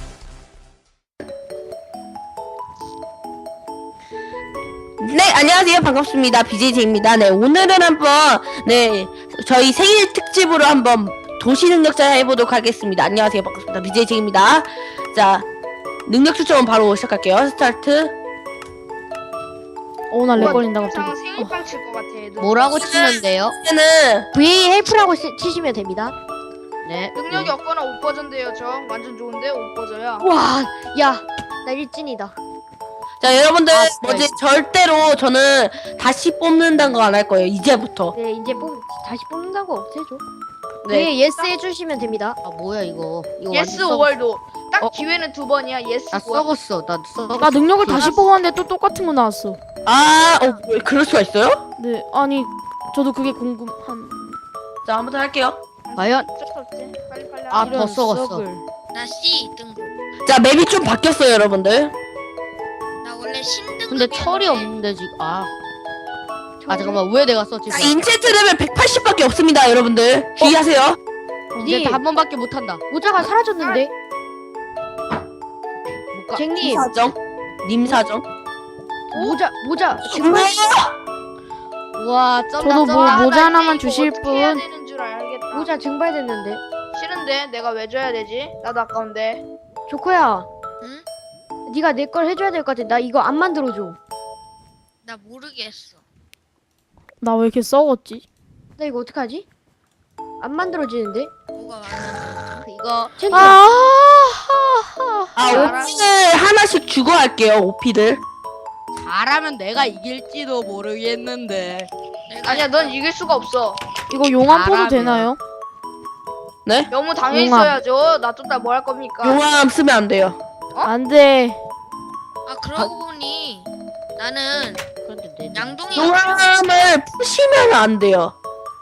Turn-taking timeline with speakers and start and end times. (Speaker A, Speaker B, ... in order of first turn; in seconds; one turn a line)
Speaker A: 5.0-15.5
Speaker A: 16.1-18.2
Speaker B: 20.1-21.6
Speaker C: 20.3-23.2
Speaker D: 22.4-23.6
Speaker A: 22.8-24.3
Speaker E: 24.3-26.1
Speaker D: 26.9-27.6
Speaker C: 27.1-30.3
Speaker E: 30.2-32.4
Speaker A: 33.2-38.1
Speaker D: 33.7-34.4
Speaker E: 38.1-40.2
Speaker A: 40.8-41.1
Speaker E: 40.9-42.4
Speaker D: 42.5-44.1
Speaker C: 43.5-46.5
Speaker D: 46.1-48.1
Speaker B: 47.4-49.6
Speaker A: 47.9-48.3
Speaker A: 49.9-51.6
Speaker B: 51.8-54.4
Speaker A: 54.9-55.6
Speaker C: 55.9-57.8
Speaker D: 56.0-56.3
Speaker D: 57.5-58.5
Speaker B: 57.6-58.6
Speaker F: 58.9-59.9
Speaker A: 60.2-61.9
Speaker F: 63.0-64.7
Speaker D: 63.9-65.5
Speaker E: 66.6-67.0
Speaker D: 66.7-68.0
Speaker A: 67.7-71.0
Speaker E: 71.5-72.0
Speaker D: 71.6-72.8
Speaker E: 72.9-73.9
Speaker D: 76.1-76.5
Speaker E: 76.4-76.9
Speaker A: 76.6-78.3
Speaker E: 79.1-80.5
Speaker C: 79.1-79.4
Speaker A: 80.1-80.9
Speaker D: 81.9-83.2
Speaker B: 82.6-84.6
Speaker C: 82.9-85.7
Speaker E: 85.5-86.6
Speaker C: 86.9-89.4
Speaker E: 89.9-90.5
Speaker E: 91.7-94.0
Speaker F: 95.0-96.0
Speaker B: 97.2-98.2
Speaker E: 98.8-99.5
Speaker E: 100.4-101.3
Speaker F: 101.5-102.4
Speaker D: 102.4-103.5
Speaker E: 103.2-103.6
Speaker B: 103.3-105.8
Speaker A: 105.4-108.2
Speaker D: 105.4-106.1
Speaker D: 108.9-111.9
Speaker F: 112.3-113.0
Speaker C: 112.5-113.8
Speaker B: 114.1-115.4
Speaker D: 114.3-115.3
Speaker C: 116.9-119.4
Speaker B: 117.3-117.8
Speaker A: 119.2-120.4
Speaker B: 120.8-121.6
Speaker F: 122.5-124.8
Speaker D: 125.0-126.1
Speaker F: 125.5-126.5
Speaker A: 125.9-128.3